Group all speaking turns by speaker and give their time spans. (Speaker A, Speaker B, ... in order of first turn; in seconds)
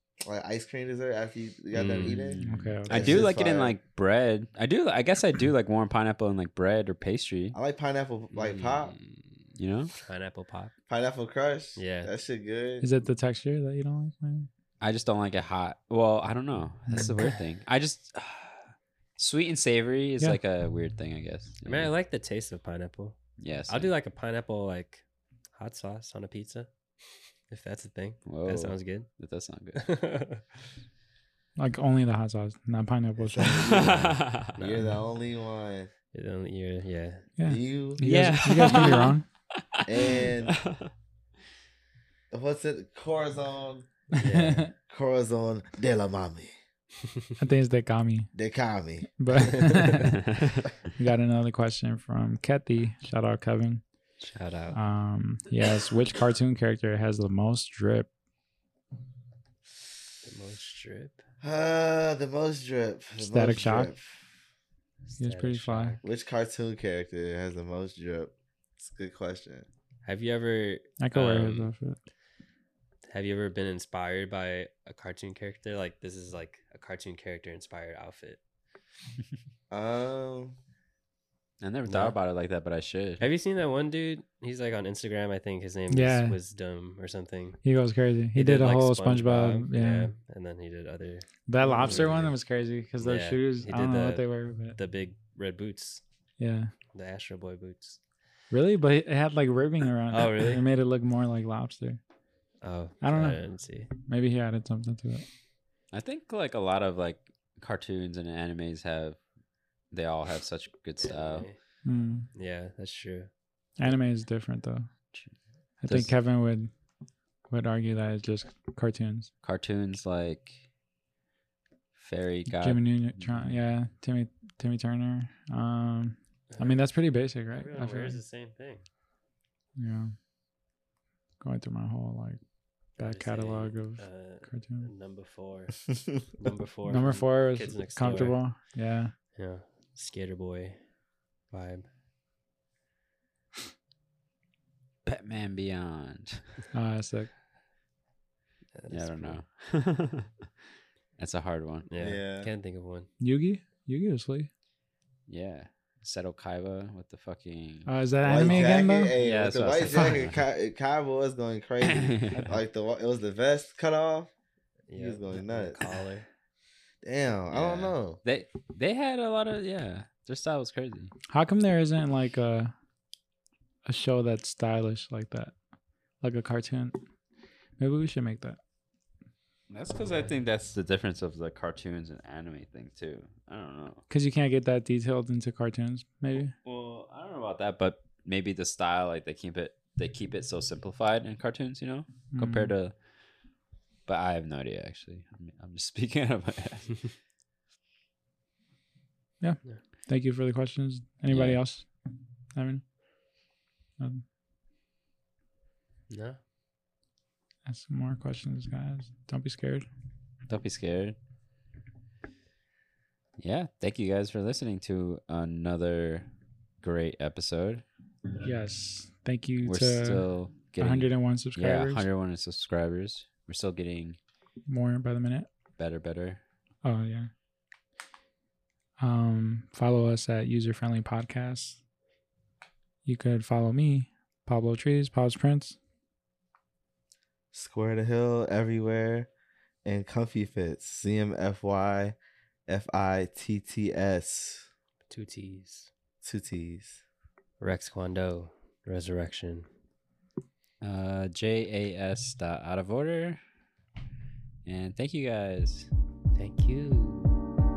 Speaker A: 0.2-3.8, 7.5-8.9, 10.9-12.8, 33.2-35.9, 37.5-38.0, 39.9-40.6, 42.3-43.9, 44.9-46.5, 48.3-49.5, 61.4-64.2, 66.0-69.7, 79.7-80.5, 152.0-152.5, 158.2-164.3, 164.9-165.8, 167.0-168.2, 237.5-239.3, 239.8-242.2, 242.7-244.7, 246.2-247.0
Speaker B: 1.7-2.4, 8.3-9.4, 10.0-10.7, 11.8-12.1, 21.6-25.0, 25.6-26.7, 27.5-29.1, 29.8-30.4, 33.8-34.8, 36.1-37.3, 44.2-44.6, 54.2-54.8, 60.2-61.2, 65.1-66.0, 70.0-71.7, 73.1-78.4, 81.9-82.2, 83.2-87.6, 88.3-92.3, 93.0-96.0, 96.9-98.0, 100.1-100.6, 102.6-103.9, 111.0-111.6, 112.3-113.3, 126.5-126.8, 127.5-128.8, 133.0-135.8, 136.4-138.4, 139.4-140.8, 141.5-141.9, 148.8-149.4, 151.9-153.1, 164.9-166.3, 206.1-206.4, 245.1-245.9, 247.6-249.7, 256.4-257.4
Speaker C: 2.1-7.6, 9.6-9.9, 14.8-18.6, 19.2-21.9, 23.4-23.9, 28.2-29.8, 33.6-34.6, 38.0-39.2, 39.8-40.9, 50.3-50.6, 81.6-83.3, 105.9-109.2, 109.9-111.5, 115.9-116.1, 119.4-120.6, 122.0-123.5, 145.1-146.4, 148.9-150.5, 151.2-151.9, 155.3-160.4, 161.8-162.5, 167.5-171.1, 179.7-184.0, 186.6-192.9, 194.1-197.1, 201.3-201.6, 210.5-211.2, 213.4-216.3, 216.8-217.8, 219.6-224.2, 225.8-226.4, 250.8-253.4, 254.7-255.9
Speaker D: 2.5-3.2, 12.8-14.5, 31.6-33.7, 37.4-39.3, 44.2-44.7, 47.4-48.3, 49.2-50.2, 51.0-53.8, 54.7-58.1, 63.2-63.9, 65.2-66.0, 71.0-72.0, 85.9-86.3, 87.6-90.1, 91.5-94.8, 96.4-96.7, 98.5-102.0, 103.0-105.3, 111.8-112.3, 113.8-114.9, 115.8-116.7, 117.5-119.3, 122.5-128.2, 129.8-130.1, 131.4-132.4, 133.0-134.9, 136.9-139.1, 146.7-147.3, 153.2-154.5, 157.9-159.2, 171.3-172.7, 173.9-175.5, 176.2-177.0, 177.8-178.6, 184.1-186.5, 192.3-192.8, 199.4-201.9, 202.6-202.8, 204.0-204.2, 207.7-209.9, 218.4-220.3, 220.8-222.1, 224.7-225.5, 226.8-227.3, 229.0-231.8, 233.1-235.8